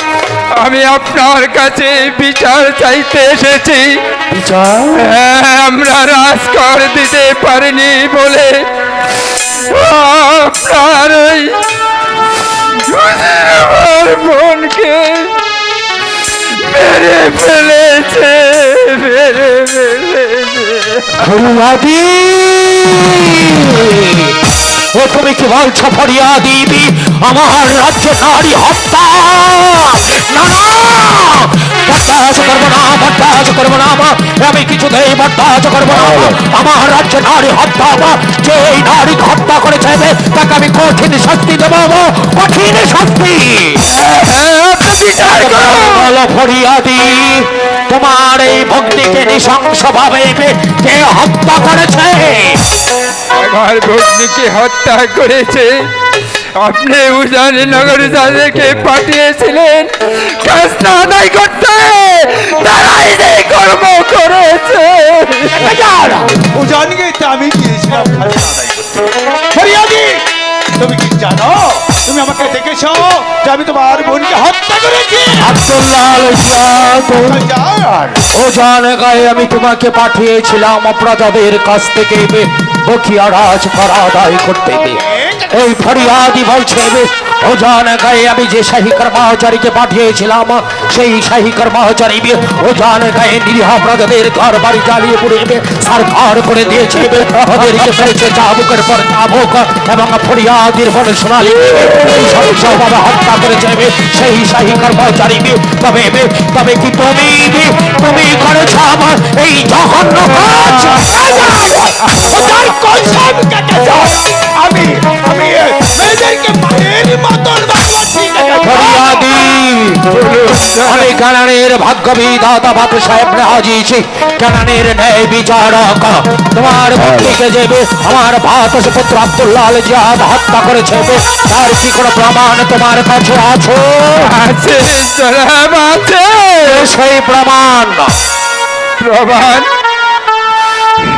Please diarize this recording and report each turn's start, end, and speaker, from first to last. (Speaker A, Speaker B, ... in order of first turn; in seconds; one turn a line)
Speaker A: 0.6-4.0
Speaker B: 4.3-5.0
Speaker A: 5.0-8.7
Speaker A: 9.5-11.7
Speaker A: 12.7-15.4
Speaker A: 16.4-21.2
Speaker B: 21.1-24.4
Speaker B: 24.9-43.9
Speaker A: 43.9-46.1
Speaker B: 45.2-52.6
Speaker A: 53.3-55.9
Speaker A: 56.6-65.7
Speaker C: 65.5-70.2
Speaker C: 70.8-75.5
Speaker B: 75.4-77.4
Speaker C: 77.1-78.2
Speaker B: 78.3-111.2
Speaker C: 85.0-85.5
Speaker C: 110.8-119.3
Speaker B: 118.6-120.2
Speaker A: 120.1-121.1
Speaker B: 120.8-134.4
Speaker A: 134.2-136.9
Speaker B: 136.6-138.1
Speaker A: 139.0-139.7